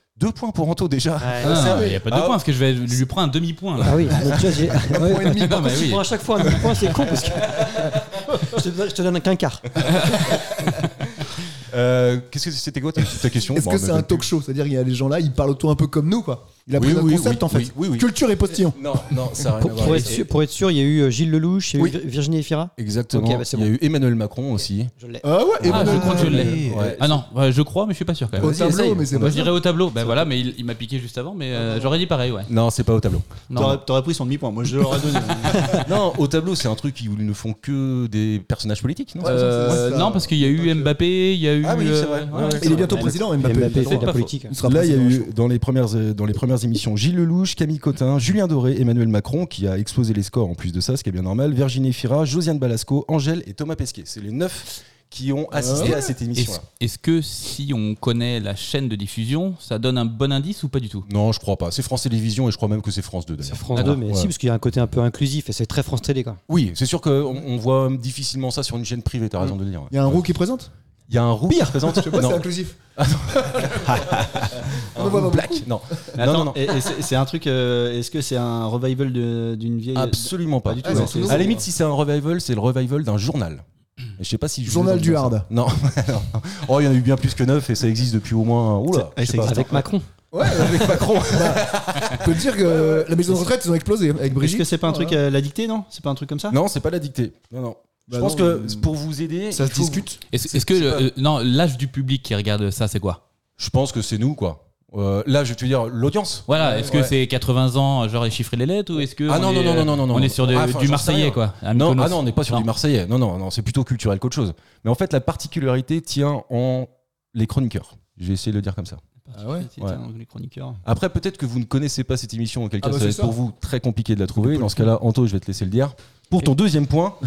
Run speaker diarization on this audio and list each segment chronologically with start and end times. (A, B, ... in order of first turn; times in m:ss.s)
0:00.2-0:02.4 A
0:01.2-0:01.6 B
0:01.4-0:04.2 C
0:01.5-0:01.8 D
0:03.8-0:09.7 B
0:04.2-0:06.0 D
0:05.2-0:06.0 C
0:07.2-0:08.0 A
0:09.8-0:14.3 A
0:09.8-0:10.4 C
0:13.5-0:20.2 D
0:16.8-0:20.2 A
0:19.7-0:23.7 B
0:22.8-0:24.9 A
0:25.0-0:26.8 B
0:25.2-0:27.0 D
0:25.6-0:26.0 A
0:25.6-0:32.5 C
0:26.6-0:27.1 A
0:28.4-0:29.5 A
0:28.4-0:29.6 D
0:32.5-0:33.4 A
0:33.5-0:33.8 C
0:33.5-0:35.8 E
0:35.7-0:40.2 A
0:39.2-0:40.9 D
0:39.2-0:43.2 C
0:41.6-0:44.1 A
0:42.4-0:45.3 D
0:43.4-0:44.5 B
0:44.6-0:56.6 A
0:55.5-0:56.2 D
0:56.4-1:01.1 C
1:01.0-1:04.3 A
1:03.4-1:06.4 B
1:06.5-1:10.3 A
1:09.9-1:10.7 D
1:11.1-1:16.6 A
1:11.5-1:12.8 D
1:13.3-1:16.1 D
1:13.9-1:14.4 E
1:16.2-1:21.6 E
1:20.0-1:23.6 A
1:20.8-1:21.6 D
1:24.2-1:29.6 A
1:24.6-1:25.5 D
1:29.0-1:29.9 E
1:29.4-1:30.1 B
1:30.3-1:35.2 D
1:30.4-1:33.1 A
1:34.4-1:36.6 E
1:36.5-1:40.1 A
1:38.1-1:38.9 D
1:39.5-1:41.1 D
1:40.3-1:43.2 C
1:43.6-1:47.0 A
1:46.5-1:52.7 C
1:46.6-1:47.1 D
1:49.3-1:59.0 A
1:59.2-2:00.8 E
1:59.4-1:59.7 D
2:00.8-2:07.2 A
2:02.8-2:03.4 D
2:04.4-2:04.8 D